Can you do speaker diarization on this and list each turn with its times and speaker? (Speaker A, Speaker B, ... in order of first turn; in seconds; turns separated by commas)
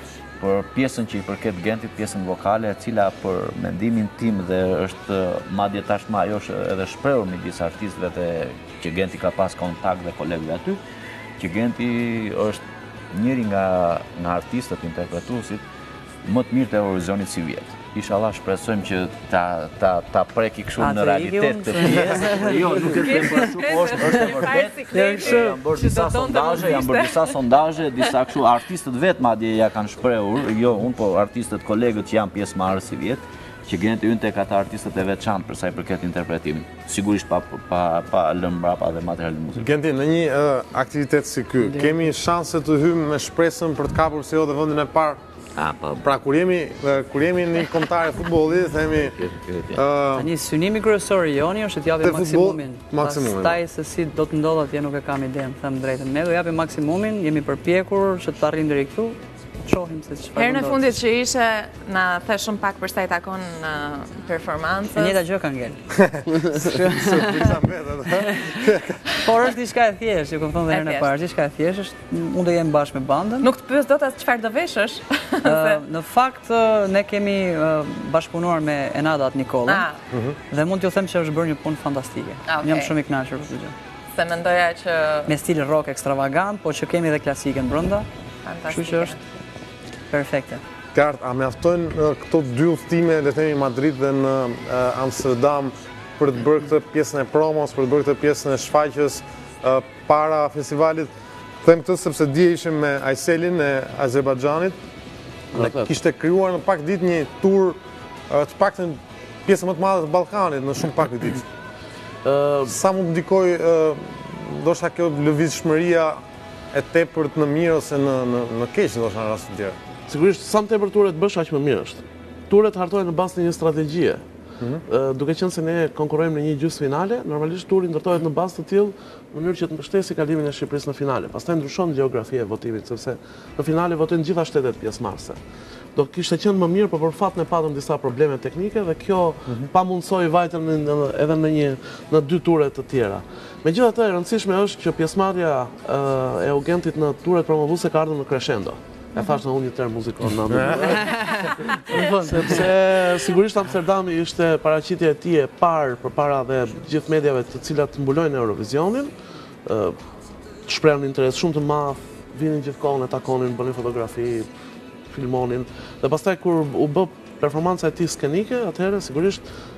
Speaker A: 0.4-10.8, Speaker A: 11.4-15.6, Speaker A: 16.2-39.7, Speaker B: 20.8-23.4, Speaker C: 22.9-27.4, Speaker B: 24.9-25.6, Speaker D: 39.6-45.2, Speaker A: 45.6-46.1, Speaker D: 46.0-49.2, Speaker A: 48.8-49.8, Speaker D: 49.7-50.3, Speaker B: 50.2-60.8, Speaker D: 52.0-53.6, Speaker C: 60.4-65.2, Speaker B: 65.0-65.9, Speaker B: 66.4-67.5, Speaker D: 66.8-69.0, Speaker B: 69.2-73.5, Speaker C: 70.7-71.1, Speaker C: 73.4-75.8, Speaker B: 75.5-79.9, Speaker C: 79.7-80.0, Speaker D: 80.1-80.4, Speaker B: 80.5-83.8, Speaker C: 82.5-82.9, Speaker C: 84.1-85.3, Speaker B: 85.3-88.1, Speaker C: 88.5-89.2, Speaker B: 88.7-89.2, Speaker B: 90.1-90.6, Speaker D: 91.0-101.1, Speaker D: 101.6-104.8, Speaker E: 105.5-105.9, Speaker D: 105.5-107.8, Speaker D: 108.3-111.5, Speaker E: 112.2-112.8, Speaker D: 112.7-116.2, Speaker D: 116.7-119.8, Speaker E: 120.1-124.2, Speaker E: 124.9-135.4, Speaker E: 135.9-151.2, Speaker D: 150.5-151.3, Speaker B: 151.9-152.6, Speaker E: 152.2-159.1, Speaker E: 159.7-160.0, Speaker E: 160.7-164.5, Speaker E: 165.1-169.4